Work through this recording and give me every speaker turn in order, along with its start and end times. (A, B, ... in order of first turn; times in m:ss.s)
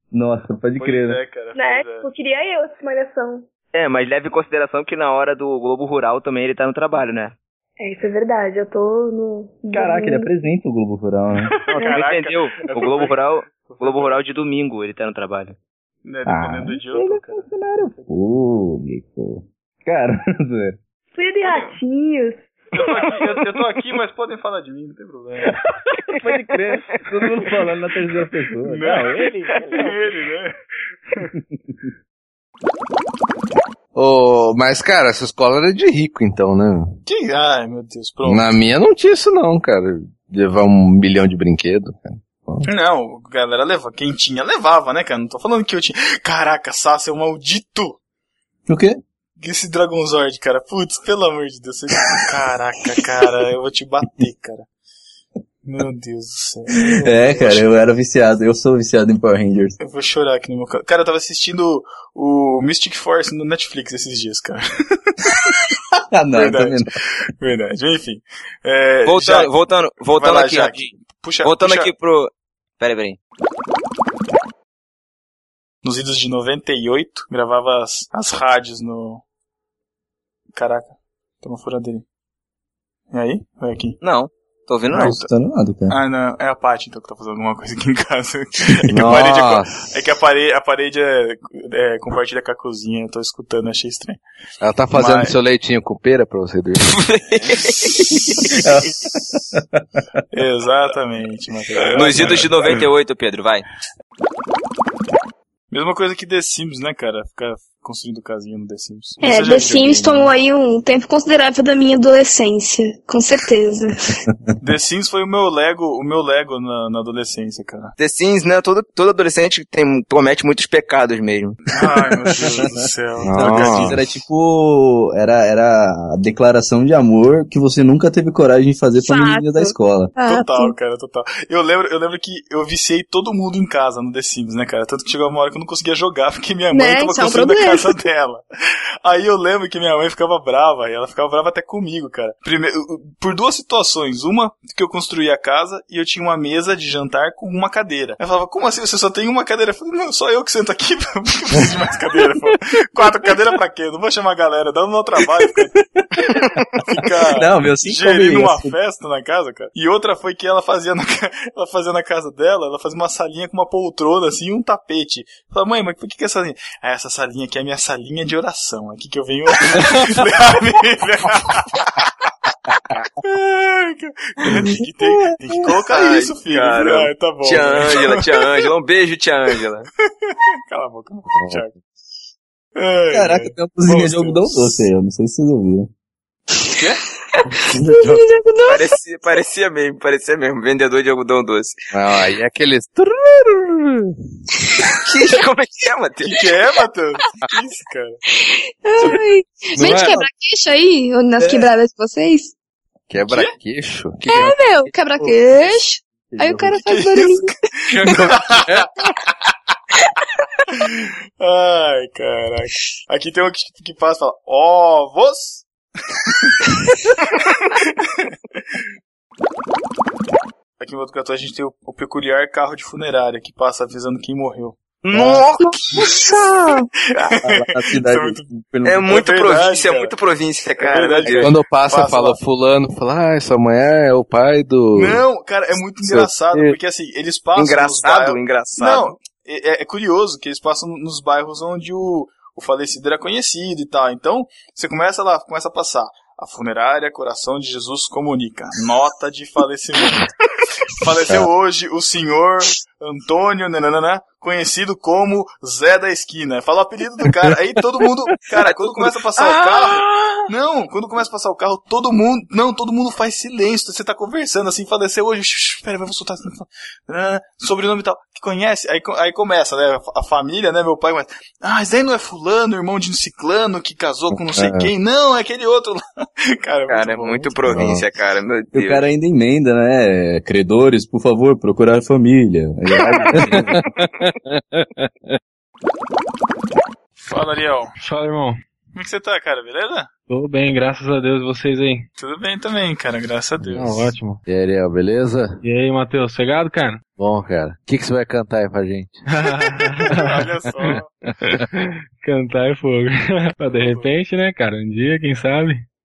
0:00.1-0:01.2 A
0:00.8-0:02.1 B
0:01.5-0:03.4 C
0:03.7-0:07.4 D
0:07.8-0:10.3 C
0:09.7-0:11.5 A
0:11.4-0:14.2 B
0:11.7-0:15.6 D
0:16.0-0:17.5 B
0:16.3-0:20.8 A
0:21.2-0:22.3 C
0:22.7-0:25.6 B
0:26.2-0:30.0 A
0:28.6-0:30.5 B
0:34.0-0:37.0 E
0:37.1-0:38.5 B
0:38.2-0:42.7 E
0:42.7-0:48.0 B
0:48.7-0:49.0 A
0:49.4-0:54.7 B
0:55.6-0:57.7 B
0:57.0-0:59.8 A
0:59.8-1:05.6 B
1:06.1-1:06.9 A
1:06.3-1:06.8 B
1:07.4-1:09.5 B
1:09.0-1:13.2 D
1:10.1-1:11.9 B
1:15.8-1:19.2 B
1:20.5-1:22.0 B
1:23.1-1:24.0 B
1:24.0-1:25.2 D
1:24.9-1:25.3 B
1:24.9-1:26.0 A
1:25.9-1:34.2 B
1:28.9-1:29.8 E
1:34.6-1:36.9 E
1:34.9-1:35.4 B
1:36.9-1:38.5 D
1:38.6-1:40.0 A
1:40.3-1:42.8 B
1:41.9-1:43.6 D
1:45.7-1:50.3 B
1:49.2-1:54.2 C
1:54.6-1:57.9 B
1:58.0-2:01.6 D
2:01.7-2:04.0 B
2:02.3-2:02.7 A
2:03.2-2:04.0 E
2:03.3-2:10.1 A
2:09.0-2:10.7 C
2:10.2-2:18.4 B
2:16.7-2:18.0 C
2:19.0-2:52.1 B
2:37.3-2:38.8 A
2:53.2-2:58.6 B
2:54.5-2:55.2 A
2:55.9-2:59.9 D
3:00.2-3:01.7 B
3:01.3-3:01.6 E
3:02.8-3:04.8 B
3:03.1-3:05.9 A
3:06.7-3:07.0 B
3:07.4-3:09.0 C
3:07.8-3:08.2 E
3:08.7-3:11.8 D
3:11.9-3:14.1 E
3:15.1-3:16.4 D
3:16.2-3:18.2 B
3:18.3-3:22.5 C
3:19.8-3:20.2 E
3:19.8-3:20.2 A
3:23.1-3:24.9 E
3:24.2-3:27.6 C
3:26.3-3:26.7 A
3:26.7-3:27.5 B
3:27.9-3:28.9 E
3:28.0-3:29.1 B
3:30.7-3:36.6 B
3:37.2-3:38.3 B
3:40.8-3:45.4 B
3:45.0-3:45.7 D
3:45.5-3:46.9 C
3:46.0-3:46.4 B
3:47.2-3:48.4 B
3:47.4-3:49.1 A
3:48.9-3:51.5 D
3:49.1-3:50.2 B
3:50.8-3:52.4 B
3:51.4-3:55.2 E
3:54.9-4:10.3 B
3:56.0-3:56.8 E
3:57.6-3:59.2 D
4:10.9-4:37.9 B
4:18.5-4:20.4 D
4:34.4-4:34.9 E
4:36.9-4:39.0 D
4:37.7-4:38.0 E
4:38.7-4:43.8 A
4:43.3-4:45.4 E
4:47.2-4:47.9 B
4:48.0-4:48.6 F
4:49.0-4:50.1 B
4:50.3-4:52.1 F
4:52.2-4:54.1 B
4:53.7-4:54.4 F
4:53.8-4:55.6 E
4:55.6-4:57.0 F
4:57.2-4:59.2 E
4:59.3-5:00.4 F
5:00.1-5:01.1 B
5:02.2-5:05.9 F
5:03.7-5:04.1 B